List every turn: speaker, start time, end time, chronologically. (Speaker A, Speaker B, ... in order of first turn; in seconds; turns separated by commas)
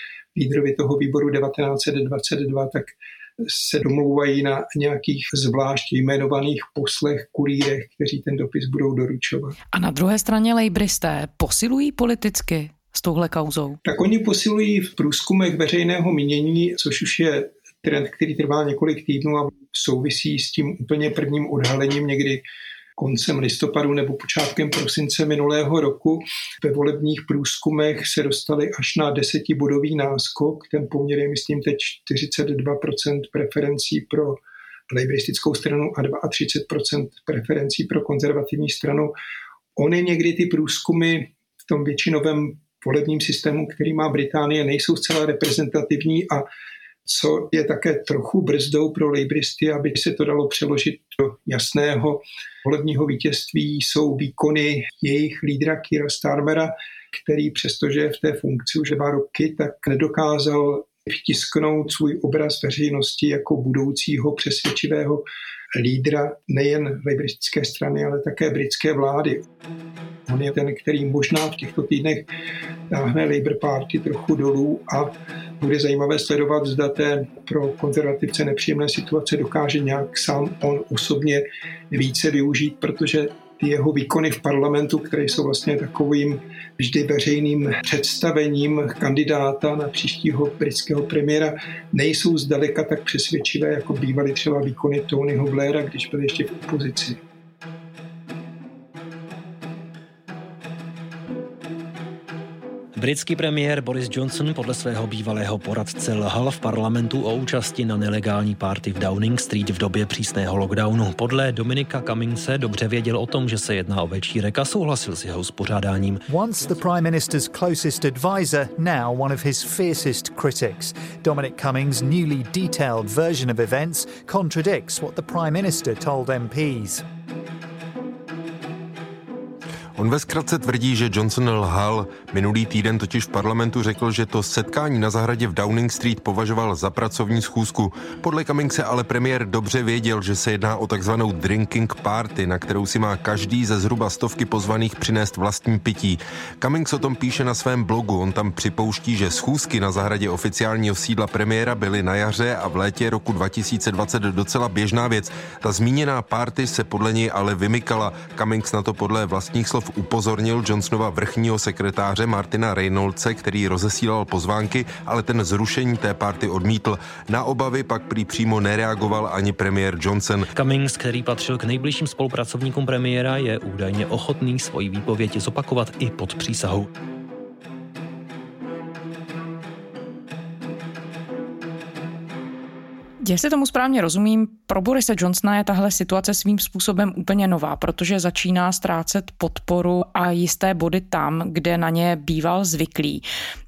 Speaker A: 0.3-9.5, Speaker B: 9.7-13.8, Speaker A: 13.8-22.4, Speaker A: 23.0-34.4, Speaker A: 34.9-39.1, Speaker A: 39.8-46.4, Speaker A: 47.0-69.4, Speaker A: 70.3-72.3, Speaker A: 72.9-97.2, Speaker C: 103.0-116.2, Speaker D: 116.3-127.0, Speaker E: 129.9-170.5, Speaker C: 170.5-176.9, Speaker B: 183.2-193.2